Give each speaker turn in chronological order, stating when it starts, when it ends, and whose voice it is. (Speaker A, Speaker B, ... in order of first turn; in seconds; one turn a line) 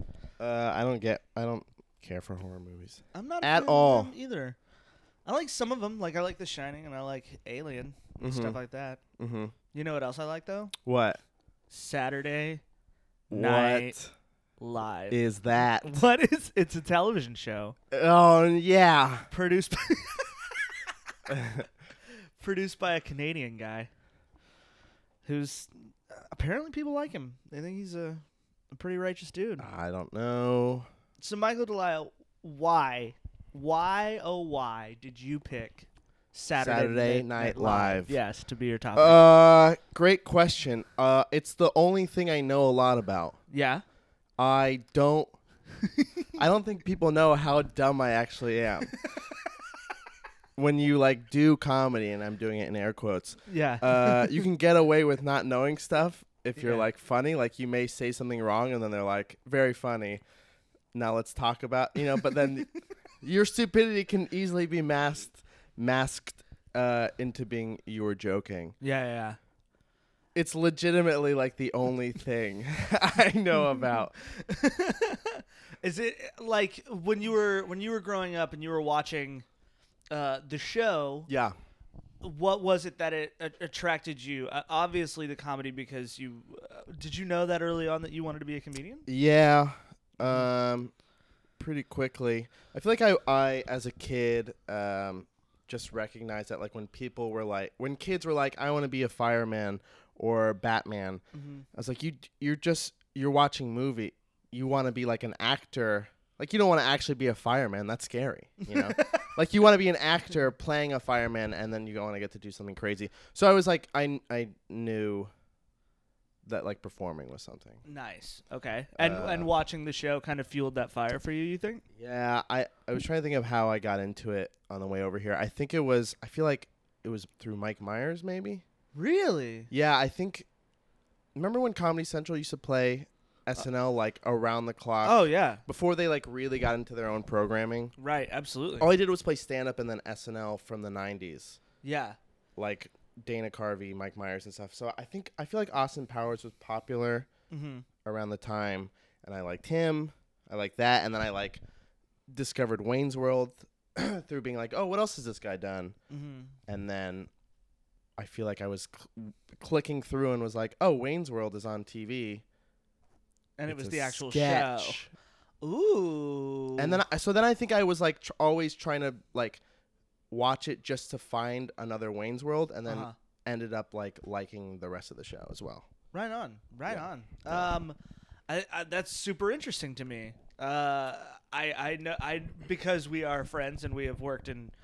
Speaker A: 0.4-4.1
Speaker B: 3.1-4.6
Speaker B: 5.3-9.0
Speaker A: 8.2-8.6
Speaker A: 9.2-9.5
Speaker B: 9.7-10.7
Speaker A: 10.8-11.2
Speaker B: 11.7-12.6
Speaker A: 13.3-14.1
Speaker B: 13.3-14.0
Speaker B: 14.6-17.8
Speaker A: 15.1-16.0
Speaker A: 17.9-19.3
Speaker B: 19.3-20.9
Speaker A: 21.3-21.7
Speaker B: 22.4-23.9
Speaker B: 25.2-29.7
Speaker A: 29.6-30.9
Speaker B: 31.2-39.3
Speaker A: 36.6-38.2
Speaker A: 39.0-43.4
Speaker B: 43.5-43.8
Speaker A: 44.4-45.4
Speaker B: 45.8-46.4
Speaker A: 46.4-48.9
Speaker A: 50.6-60.2
Speaker B: 53.5-54.4
Speaker B: 56.6-56.9
Speaker A: 60.9-62.7
Speaker A: 63.2-68.8
Speaker B: 68.8-69.4
Speaker A: 70.3-74.1
Speaker B: 74.2-79.5
Speaker B: 80.1-81.3
Speaker A: 81.3-81.6
Speaker B: 82.2-89.1
Speaker A: 89.1-90.9
Speaker A: 91.6-101.2
Speaker B: 101.3-101.7
Speaker A: 101.7-115.3
Speaker B: 108.6-109.3
Speaker A: 116.5-117.8
Speaker B: 117.8-121.8
Speaker A: 119.0-119.5
Speaker A: 122.0-128.6
Speaker B: 128.9-129.7
Speaker A: 129.7-130.5
Speaker A: 131.3-137.9
Speaker B: 135.0-135.6
Speaker B: 138.0-138.9
Speaker A: 138.8-141.6
Speaker B: 141.8-142.2
Speaker A: 142.6-147.3
Speaker B: 147.5-147.9
Speaker A: 148.1-151.6
Speaker A: 152.3-156.0
Speaker B: 156.1-156.6
Speaker A: 156.7-157.3
Speaker A: 158.2-162.4
Speaker B: 163.6-165.0
Speaker A: 163.7-165.1
Speaker B: 165.6-167.0
Speaker A: 166.8-169.6
Speaker A: 170.3-175.9
Speaker B: 172.9-173.2
Speaker B: 176.1-178.0
Speaker A: 176.9-177.7
Speaker B: 178.5-184.7